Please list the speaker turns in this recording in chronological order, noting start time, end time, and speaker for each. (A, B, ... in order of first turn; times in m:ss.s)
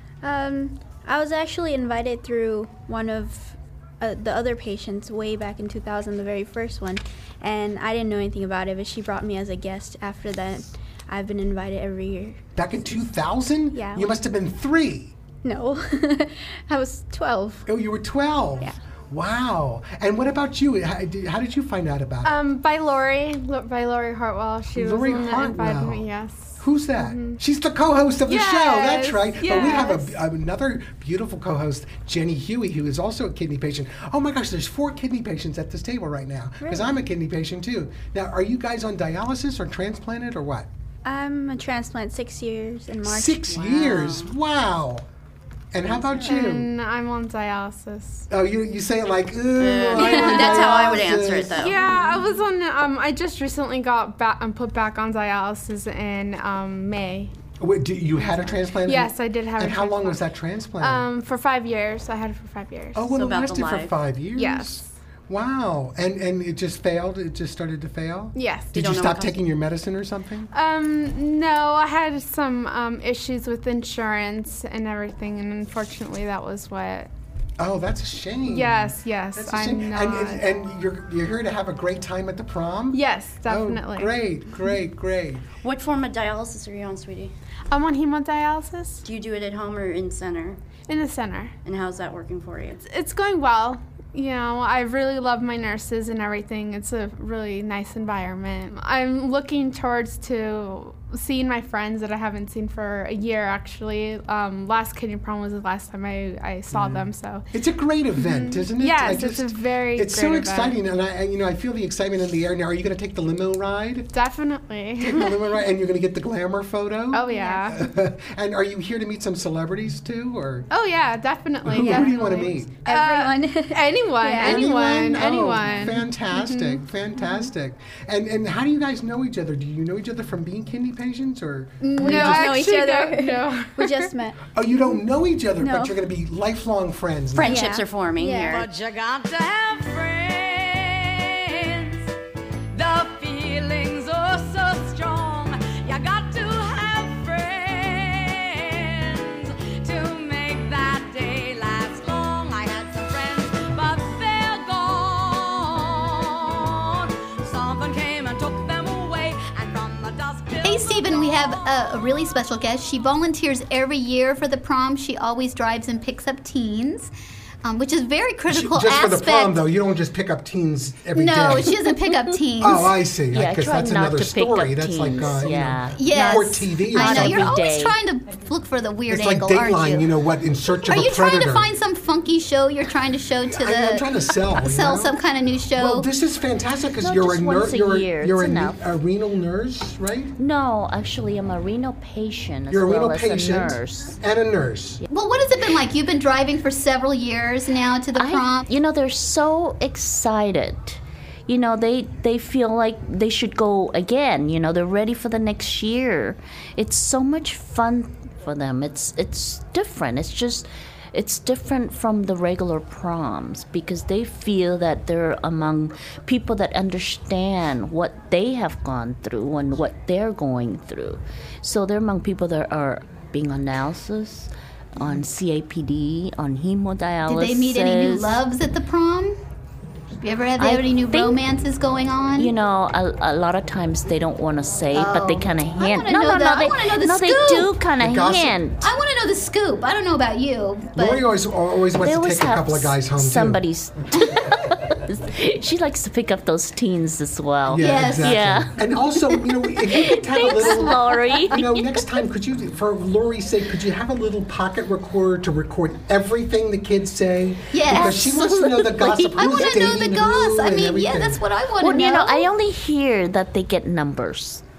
0:00.2-0:13.0 A
0:12.6-0:15.1 B
0:13.7-0:14.2 A
0:15.4-0:17.7 A
0:17.6-0:22.4 B
0:22.2-0:27.4 C
0:24.7-0:26.0 B
0:26.6-0:40.7 B
0:28.2-0:30.2 C
0:36.6-0:37.0 A
0:41.0-0:44.2 A
0:43.0-0:45.0 B
0:43.6-0:44.3 D
0:45.7-0:46.7 B
0:45.9-0:46.3 A
0:46.2-0:48.3 C
0:48.3-0:51.7 B
0:49.6-0:51.8 D
0:51.6-0:57.3 C
0:57.6-1:01.0 B
0:58.8-1:00.2 C
1:00.8-1:03.1 C
1:02.9-1:10.5 B
1:03.1-1:03.9 D
1:04.4-1:04.9 C
1:08.3-1:08.8 C
1:08.7-1:09.4 D
1:10.5-1:17.1 C
1:17.6-1:25.4 B
1:18.4-1:20.4 C
1:22.9-1:24.1 C
1:25.6-1:27.3 D
1:27.7-1:29.0 C
1:29.0-1:30.6 D
1:30.9-1:31.5 C
1:31.6-1:32.8 D
1:32.8-1:47.4 C
1:46.7-1:54.1 B
1:48.2-1:50.8 C
1:54.1-1:55.4 C
1:55.0-2:00.7 B
1:57.1-1:57.8 C
1:57.3-1:57.7 A
2:00.7-2:06.8 C
2:01.6-2:02.9 B
2:01.8-2:04.7 A
2:04.4-2:12.8 B
2:07.2-2:07.5 A
2:11.8-2:14.4 A
2:12.0-2:14.1 C
2:14.5-2:17.6 B
2:15.6-2:16.0 A
2:17.3-2:18.7 D
2:17.4-2:18.6 A
2:18.5-2:22.1 E
2:22.7-2:41.6 E
2:40.6-2:47.1 F
2:47.6-2:49.6 F
2:48.5-2:51.8 B
2:51.1-2:52.9 F
2:52.6-2:57.6 B
2:53.3-2:56.1 G
2:55.9-3:00.1 F
2:56.9-2:58.0 G
2:59.1-3:01.7 B
3:00.8-3:06.1 F
3:03.5-3:05.2 B
3:05.7-3:10.3 B
3:07.0-3:08.8 G
3:10.4-3:14.2 G
3:12.7-3:15.0 B
3:15.1-3:18.7 F
3:18.1-3:48.4 G
3:47.2-3:49.4 F
3:50.2-3:52.5 F
3:50.6-3:51.4 G
3:52.4-3:58.8 G
3:54.9-3:57.8 F
3:58.0-3:58.6 B
3:58.8-4:01.2 F
4:01.0-4:03.6 B
4:02.0-4:08.7 G
4:07.6-4:21.4 B
4:07.8-4:08.4 F
4:09.9-4:11.0 F
4:09.9-4:12.0 G
4:17.7-4:22.5 F
4:17.9-4:19.5 G
4:21.8-4:24.6 G